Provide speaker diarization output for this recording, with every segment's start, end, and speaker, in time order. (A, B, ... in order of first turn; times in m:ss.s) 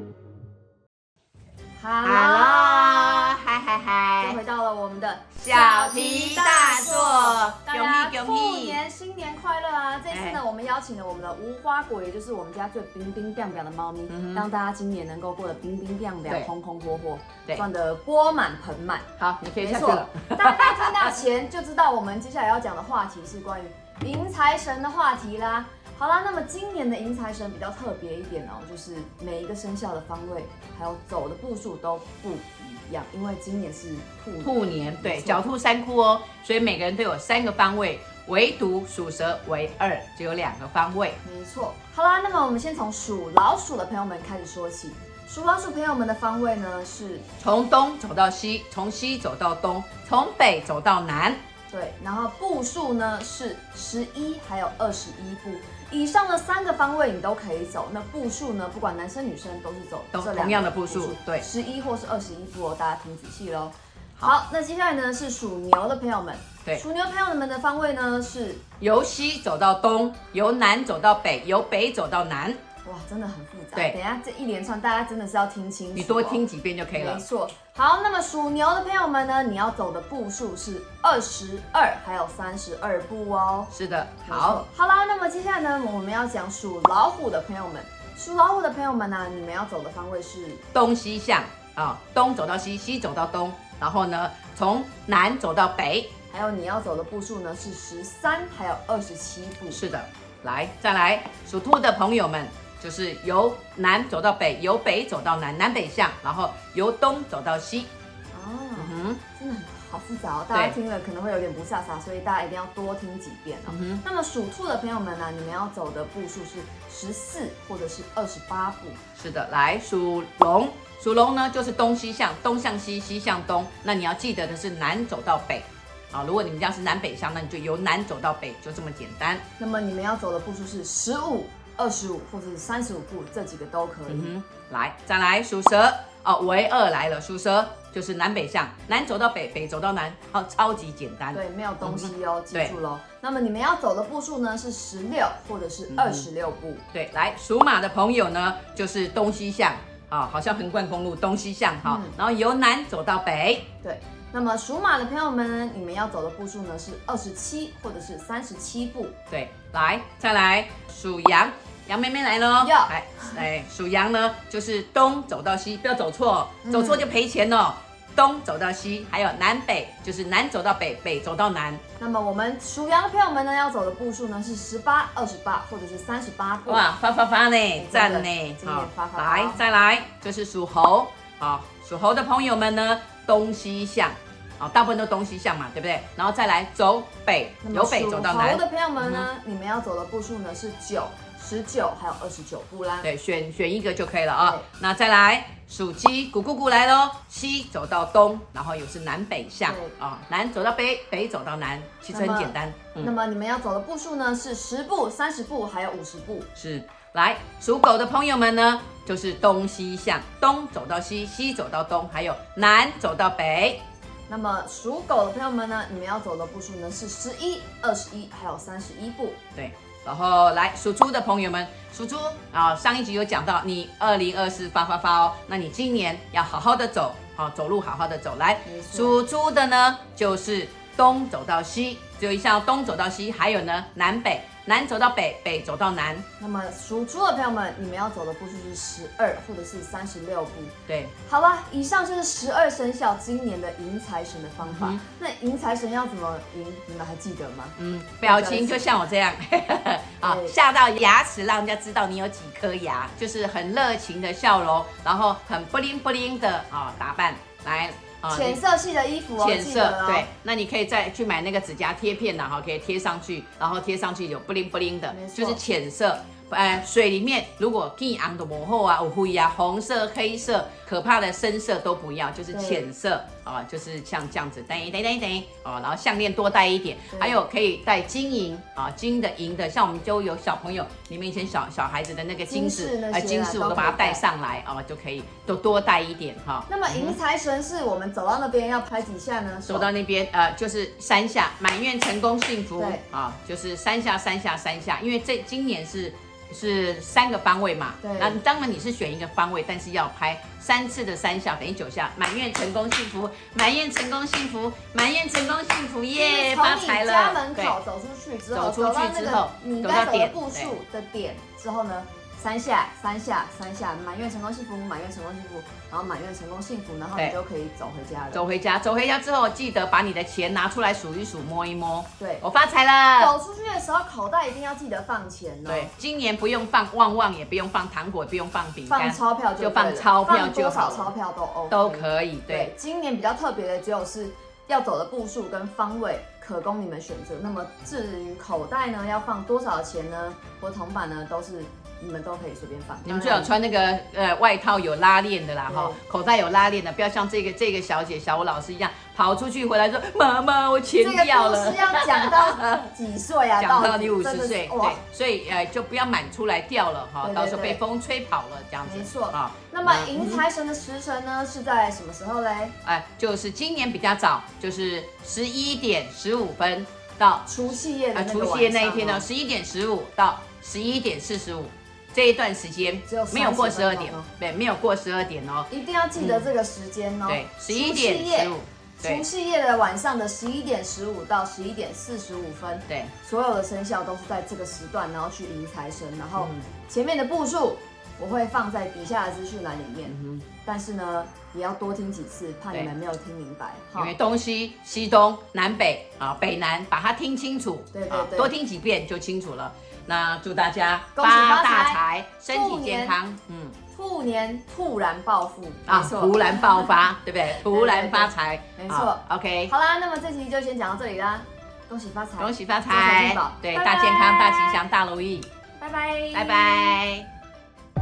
0:01.8-0:03.3 A
0:02.0-0:04.4 B
0:04.2-0:19.1 A
0:05.4-0:08.8 B
0:10.1-0:10.4 B
0:14.1-0:14.5 B
0:19.2-0:21.1 B
0:19.6-0:35.4 A
0:34.4-0:41.2 B
0:41.2-0:47.2 A
0:47.4-0:51.4 B
0:51.7-1:08.6 A
1:00.1-1:01.4 B
1:08.8-1:12.6 B
1:12.8-1:23.7 A
1:16.0-1:17.2 B
1:23.7-1:24.6 B
1:24.2-1:30.6 A
1:30.7-1:36.1 B
1:36.3-1:39.8 A
1:39.7-1:47.9 B
1:48.3-1:59.0 A
1:48.8-1:49.2 B
1:53.7-1:54.0 B
1:59.2-2:09.4 B
2:09.6-2:14.3 A
2:14.1-2:22.8 B
2:21.3-2:26.8 A
2:25.9-2:26.3 B
2:26.9-2:33.7 B
2:31.8-2:32.2 A
2:33.8-2:39.1 A
2:39.3-2:51.8 B
2:42.6-2:43.4 A
2:46.6-2:47.1 A
2:52.0-2:56.9 A
2:56.6-3:09.3 B
2:57.8-2:59.6 A
3:07.6-3:13.1 A
3:13.0-3:23.1 B
3:19.6-3:19.9 A
3:22.1-3:26.5 A
3:26.6-3:33.8 B
3:34.3-3:39.4 A
3:39.6-3:56.2 B
3:48.6-3:49.2 A
3:56.4-4:00.7 A
4:00.9-4:01.1 B
4:01.2-4:08.9 A
4:04.6-4:05.0 B
4:07.8-4:18.6 B
4:10.2-4:10.5 A
4:18.3-4:20.3 A
4:19.4-4:47.2 B
4:25.1-4:25.6 A
4:32.5-4:32.9 A
4:37.1-4:37.4 A
4:42.5-4:44.2 A
4:46.7-4:49.9 A
4:49.6-5:07.8 B
4:52.8-4:53.0 A
4:58.0-4:58.4 A
5:06.1-5:18.4 A
5:08.5-5:10.7 B
5:18.3-5:23.3 B
5:22.2-5:22.4 A
5:23.2-5:25.9 A
5:25.6-5:31.1 B
5:28.9-5:43.5 A
5:31.7-5:32.7 B
5:43.0-5:52.9 B
5:45.7-5:46.0 A
5:51.0-5:55.0 A
5:53.6-6:00.4 B
5:57.2-5:57.8 A
5:58.8-6:02.7 A
6:02.8-6:07.4 B
6:07.4-6:09.2 A
6:08.1-6:16.5 B
6:13.0-6:14.3 A
6:15.7-6:34.2 A
6:17.3-6:19.2 B
6:26.4-6:26.6 B
6:30.1-6:30.4 B
6:34.0-6:43.8 B
6:37.9-6:38.5 A
6:41.1-6:43.2 A
6:43.9-6:47.0 A
6:45.9-6:49.7 B
6:47.5-6:54.8 A
6:52.4-6:55.5 B
6:55.8-6:57.0 A
6:56.3-6:57.3 B